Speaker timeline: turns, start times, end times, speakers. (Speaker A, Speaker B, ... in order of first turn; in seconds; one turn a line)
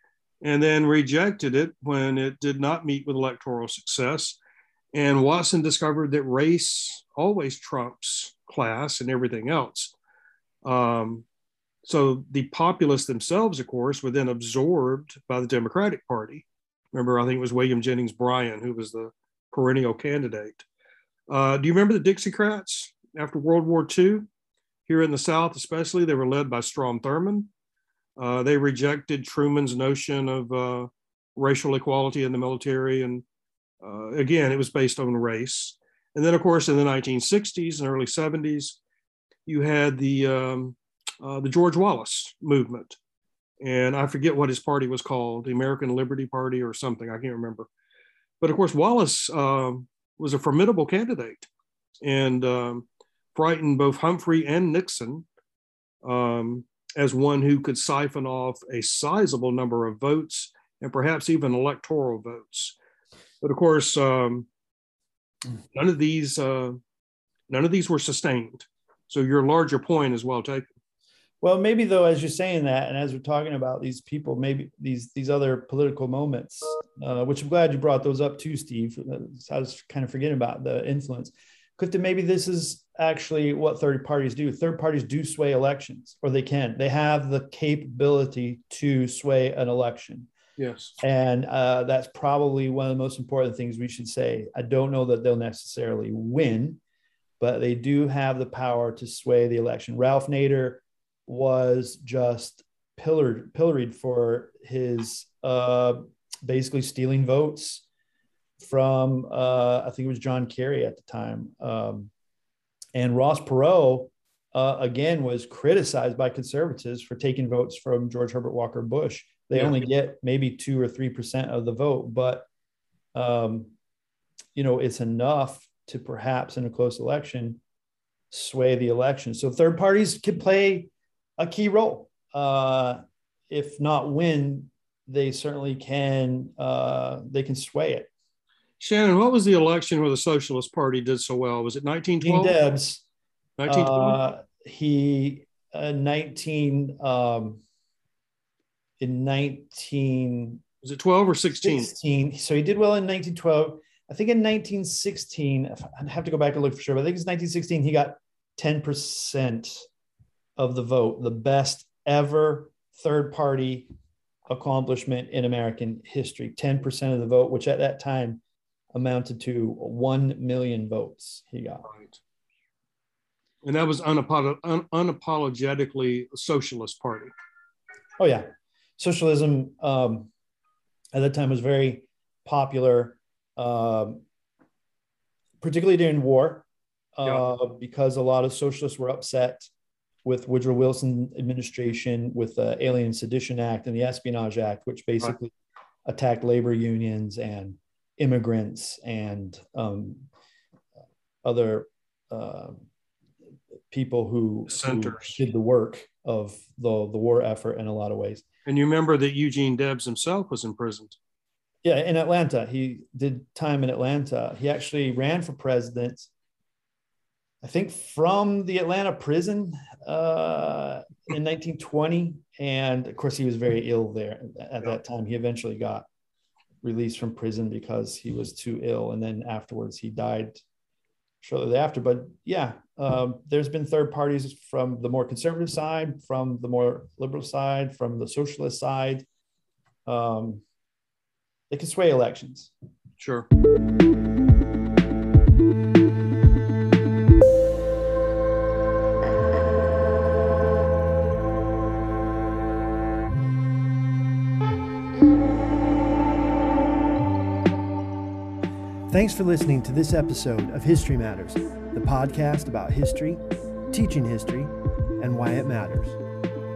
Speaker A: 0.4-4.4
Speaker A: 4.9-9.9
Speaker A: 10.6-11.2
Speaker A: 11.8-20.6
Speaker A: 21.3-24.3
Speaker A: 24.9-27.5
Speaker A: 28.2-33.2
Speaker A: 33.8-38.8
Speaker A: 39.5-43.0
Speaker A: 43.6-47.7
Speaker A: 48.4-51.5
Speaker A: 52.0-55.2
Speaker A: 56.0-62.8
Speaker A: 63.4-64.5
Speaker A: 65.7-66.8
Speaker A: 67.5-70.7
Speaker B: 71.4-90.3
Speaker A: 90.6-91.0
Speaker B: 91.0-96.8
Speaker B: 97.4-107.8
Speaker B: 108.6-112.1
Speaker B: 113.0-122.5
Speaker B: 123.1-123.7
Speaker B: 124.6-127.6
Speaker B: 128.3-138.1
Speaker A: 138.8-142.6
Speaker B: 142.2-143.0
Speaker A: 143.6-144.2
Speaker B: 143.7-147.6
Speaker B: 149.0-150.6
Speaker A: 150.8-151.9
Speaker B: 151.6-159.9
Speaker B: 160.6-163.9
Speaker B: 164.5-168.4
Speaker B: 168.9-171.9
Speaker A: 171.9-172.2
Speaker A: 173.6-177.3
Speaker B: 178.2-180.3
Speaker B: 181.1-184.2
Speaker B: 185.6-186.6
Speaker B: 187.2-189.7
Speaker B: 190.2-195.5
Speaker B: 196.1-200.3
Speaker B: 201.4-202.8
Speaker B: 203.9-208.4
Speaker A: 204.7-205.4
Speaker A: 208.6-211.2
Speaker B: 211.8-216.3
Speaker B: 217.6-226.1
Speaker B: 226.8-230.6
Speaker B: 231.4-239.2
Speaker B: 240.1-240.6
Speaker B: 241.7-242.7
Speaker A: 243.2-243.5
Speaker B: 259.1-266.2